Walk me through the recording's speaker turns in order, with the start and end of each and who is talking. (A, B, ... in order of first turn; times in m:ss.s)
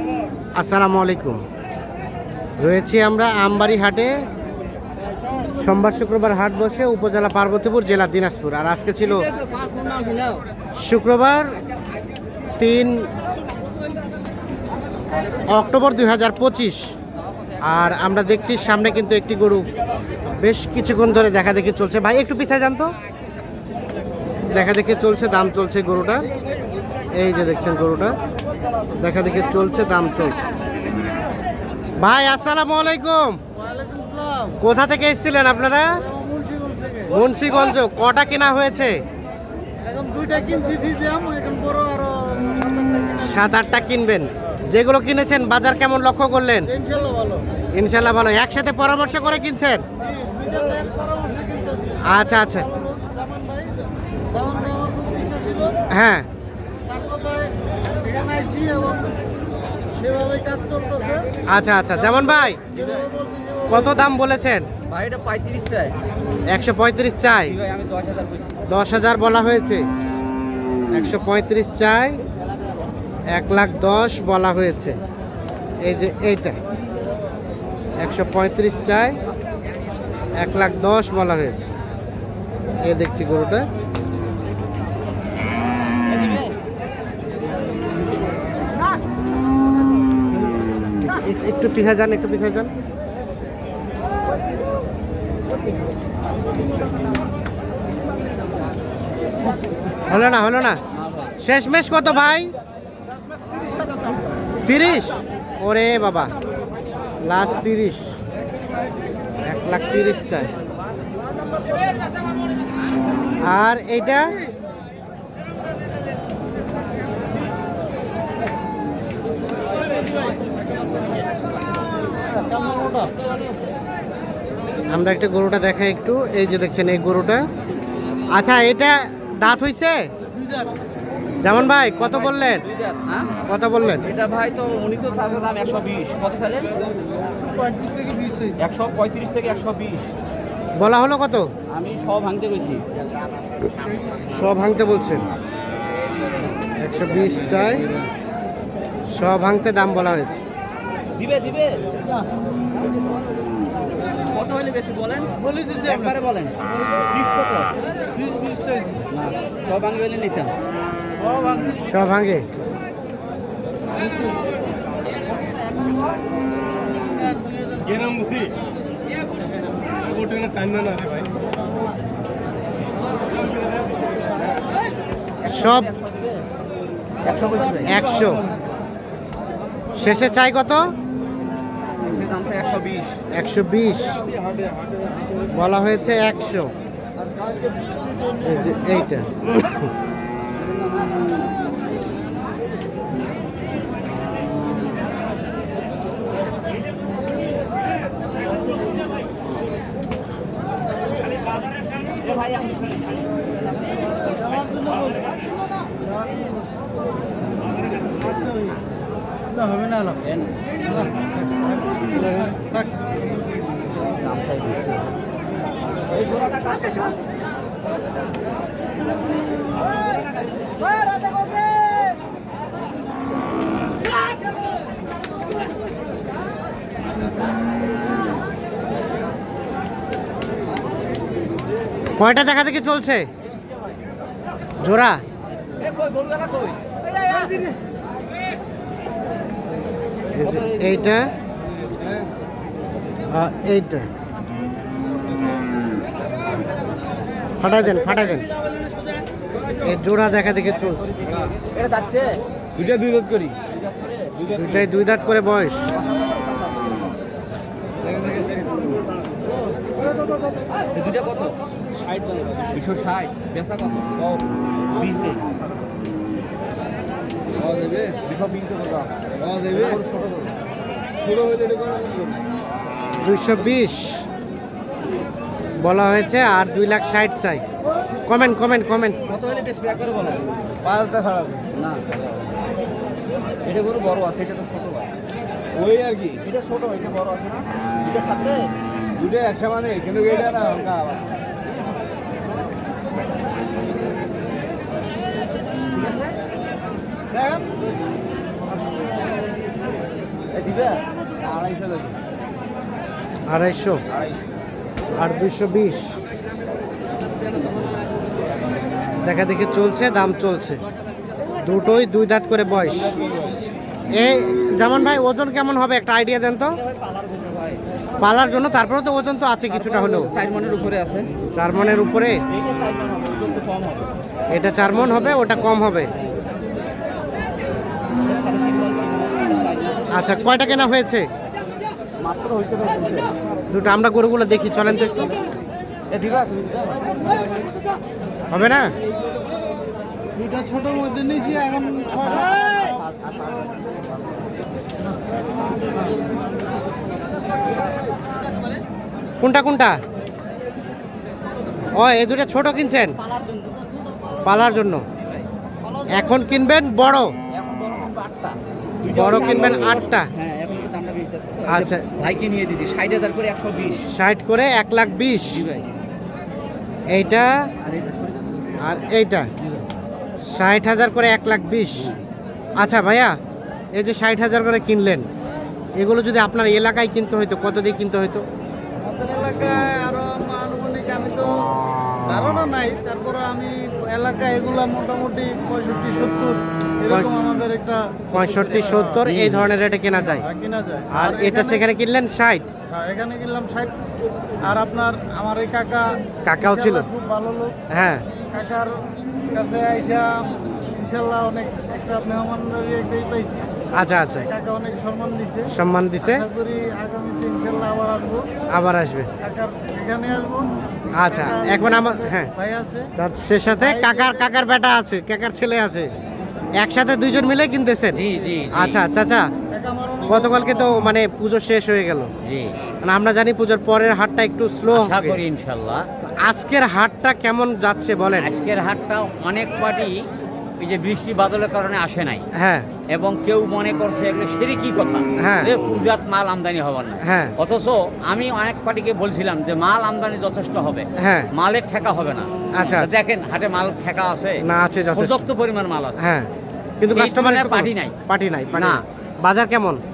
0:00.6-0:01.4 A
0:02.6-0:04.2 A
0:05.5-0:09.3 A
0:09.6-0:10.2 B
0:10.8-0:11.6 A
0:12.6-0:13.1 A
0:15.5-0:17.0 A
0:17.6-0:19.7 A
0:20.4-0:22.9 A
0:24.5-0:26.3 A
0:27.2-0:28.2 A
0:28.9-0:30.4 A
0:32.0-0:33.4 A
0:33.6-0:34.6 C
0:34.6-0:36.0 A
0:36.1-0:37.2 C
0:37.1-0:39.0 A
0:39.8-0:43.2 C
0:43.2-0:46.7 A
0:46.7-0:47.5 C
0:47.7-0:49.8 A
0:50.0-0:52.0 C
0:52.0-0:52.7 A
0:52.6-0:53.8 C
0:54.3-0:55.8 C
0:55.9-0:56.3 A
0:56.9-0:59.2 C
1:00.0-1:01.3 C
1:01.5-1:02.8 A
1:02.0-1:04.0 C
1:02.8-1:03.0 B
1:03.7-1:04.7 A
1:04.9-1:06.0 B
1:06.5-1:07.6 A
1:07.4-1:08.6 B
1:08.7-1:09.8 A
1:10.9-1:12.2 A
1:13.3-1:15.0 A
1:15.8-1:16.6 A
1:18.0-1:19.2 A
1:20.4-1:21.7 A
1:22.8-1:23.7 A
1:26.1-1:26.5 B
1:31.0-1:32.7 A
1:40.1-1:40.8 A
1:41.4-1:42.5 A
1:44.6-1:46.3 A
1:47.2-1:48.2 A
1:49.4-1:50.5 A
1:53.4-1:54.3 A
2:04.9-2:07.4 A
2:08.3-2:10.1 A
2:11.4-2:12.6 A
2:12.0-2:13.3 B
2:13.5-2:14.1 A
2:14.0-2:16.7 B
2:17.6-2:18.5 C
2:18.6-2:20.1 B
2:20.8-2:21.5 A
2:21.7-2:22.8 B
2:24.3-2:25.3 A
2:26.8-2:27.9 A
2:29.1-2:30.4 A
2:31.2-2:31.8 B
2:34.3-2:37.7 B
2:35.4-2:36.1 C
2:38.2-2:39.0 C
2:39.1-2:40.5 B
2:41.2-2:41.7 C
2:41.7-2:42.5 A
2:47.2-2:48.4 C
2:50.3-2:51.2 C
2:55.4-2:55.9 A
2:55.5-2:56.4 B
2:57.2-2:58.0 B
2:57.8-2:58.5 A
3:00.0-3:00.9 A
3:02.0-3:03.2 B
3:03.3-3:04.2 A
3:05.5-3:06.7 A
3:08.4-3:09.9 A
3:10.6-3:11.4 B
3:22.2-3:23.0 B
3:23.6-3:25.2 B
3:24.4-3:25.2 C
3:29.5-3:30.2 C
3:30.2-3:31.1 B
3:32.1-3:32.6 B
3:32.2-3:32.8 C
3:34.0-3:35.0 B
3:36.1-3:36.9 B
3:52.2-3:53.3 A
3:54.8-3:55.2 A
3:55.8-3:57.6 B
4:00.4-4:01.3 A
4:00.4-4:01.1 B
4:03.3-4:04.1 A
4:07.6-4:08.5 A
4:09.8-4:11.1 A
4:10.7-4:12.4 B
4:12.8-4:13.5 C
4:12.8-4:13.5 D
4:13.7-4:15.4 B
4:14.6-4:15.9 A
4:18.1-4:18.8 D
4:20.9-4:21.6 B
4:22.1-4:22.5 D
4:22.6-4:24.1 B
4:24.9-4:25.4 B
4:27.7-4:28.1 D
4:28.1-4:29.1 B
4:29.4-4:29.8 D
4:29.7-4:30.5 B
4:31.3-4:32.2 D
4:31.8-4:32.2 C
4:33.2-4:34.3 A
4:35.8-4:37.6 A
4:38.3-4:39.2 A
4:39.3-4:40.5 B
4:40.9-4:41.6 D
4:41.0-4:41.6 C
4:41.7-4:42.2 B
4:43.6-4:45.1 B
4:45.8-4:46.2 D
4:46.2-4:48.7 B
4:49.2-4:51.2 D
4:49.4-4:51.0 C
4:55.9-4:56.4 B
5:00.5-5:02.2 B
5:03.5-5:04.0 A
5:05.2-5:06.2 A
5:09.2-5:10.8 A
5:11.6-5:13.2 A
5:14.1-5:16.8 A
5:16.7-5:17.8 B
5:18.2-5:20.3 A
5:19.7-5:21.3 B
5:21.5-5:22.4 A
5:22.5-5:24.1 B
5:24.5-5:26.1 A
5:28.2-5:30.3 B
5:30.1-5:31.3 A
5:32.2-5:33.3 B
5:33.7-5:35.4 A
5:36.1-5:37.1 B
5:38.5-5:38.9 A
5:40.4-5:42.5 C
5:41.4-5:44.1 B
5:49.4-5:50.0 A
5:51.9-5:53.2 A
5:53.3-5:53.9 B
5:54.4-5:55.0 A
5:55.8-5:56.3 C
5:56.1-5:57.3 A
5:57.5-6:04.0 B
5:59.1-6:00.3 A
6:01.7-6:02.1 A
6:04.1-6:05.6 A
6:05.5-6:05.8 B
6:07.1-6:07.5 A
6:07.9-6:08.3 B
6:08.8-6:09.5 A
6:10.5-6:12.1 A
6:12.8-6:13.4 A
6:14.0-6:15.3 A
6:16.0-6:18.4 A
6:19.0-6:21.7 C
6:22.2-6:29.2 C
6:27.1-6:27.4 A
6:28.3-6:30.5 A
6:29.3-6:29.7 B
6:30.3-6:31.8 C
6:31.1-6:32.7 A
6:32.9-6:33.9 C
6:34.6-6:37.8 C
6:36.5-6:37.1 A
6:37.9-6:38.2 A
6:38.5-6:43.7 C
6:44.0-6:44.5 A
6:44.5-6:45.7 C
6:45.7-6:46.5 A
6:46.3-6:48.5 C
6:48.7-6:49.3 A
6:49.4-6:50.7 C
6:51.2-6:52.5 A
6:51.3-6:53.1 C
6:53.2-6:56.1 A
6:53.8-6:54.4 C
6:56.8-6:59.5 A
6:58.1-6:59.0 B
6:59.7-7:00.9 C
7:00.3-7:02.3 A
7:02.4-7:02.7 B
7:03.0-7:05.4 A
7:04.9-7:06.1 B
7:06.4-7:08.5 A
7:08.4-7:10.2 B
7:10.8-7:12.4 B
7:12.6-7:12.9 A
7:13.1-7:24.6 B
7:15.4-7:15.7 A
7:17.2-7:17.5 A
7:21.2-7:21.5 A
7:22.8-7:23.1 A
7:24.6-7:25.5 A
7:25.2-7:26.2 B
7:26.2-7:26.5 A
7:27.0-7:30.0 A
7:27.1-7:28.2 B
7:28.7-7:29.0 B